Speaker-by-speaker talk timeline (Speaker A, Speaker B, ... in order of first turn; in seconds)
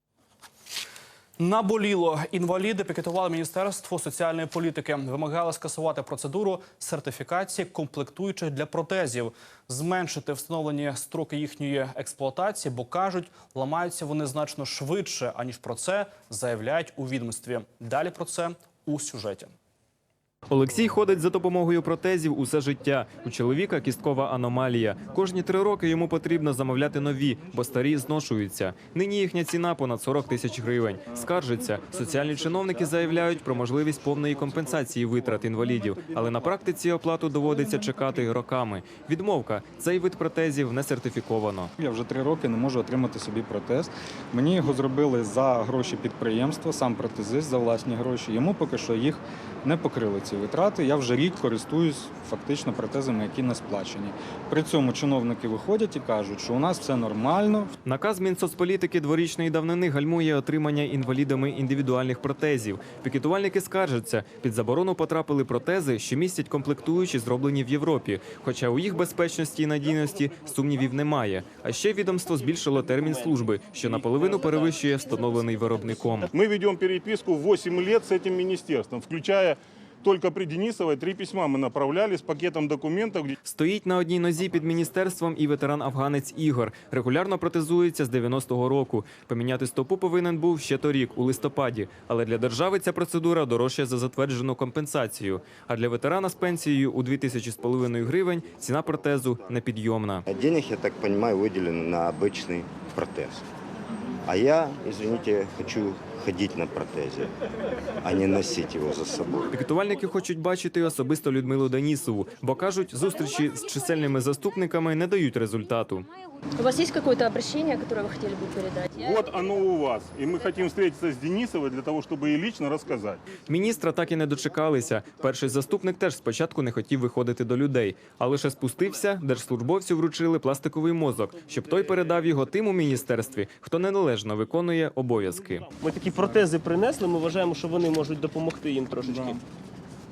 Speaker A: 1.4-19.5
Speaker B: 20.5-41.7, 57.8-76.3, 83.4-100.2, 109.5-116.1, 123.5-135.7
Speaker C: 41.8-57.7
Speaker D: 76.3-83.3, 119.0-123.2
Speaker E: 100.3-103.4, 104.2-107.3, 108.0-109.5
Speaker F: 116.6-119.0
Speaker G: 135.8-139.4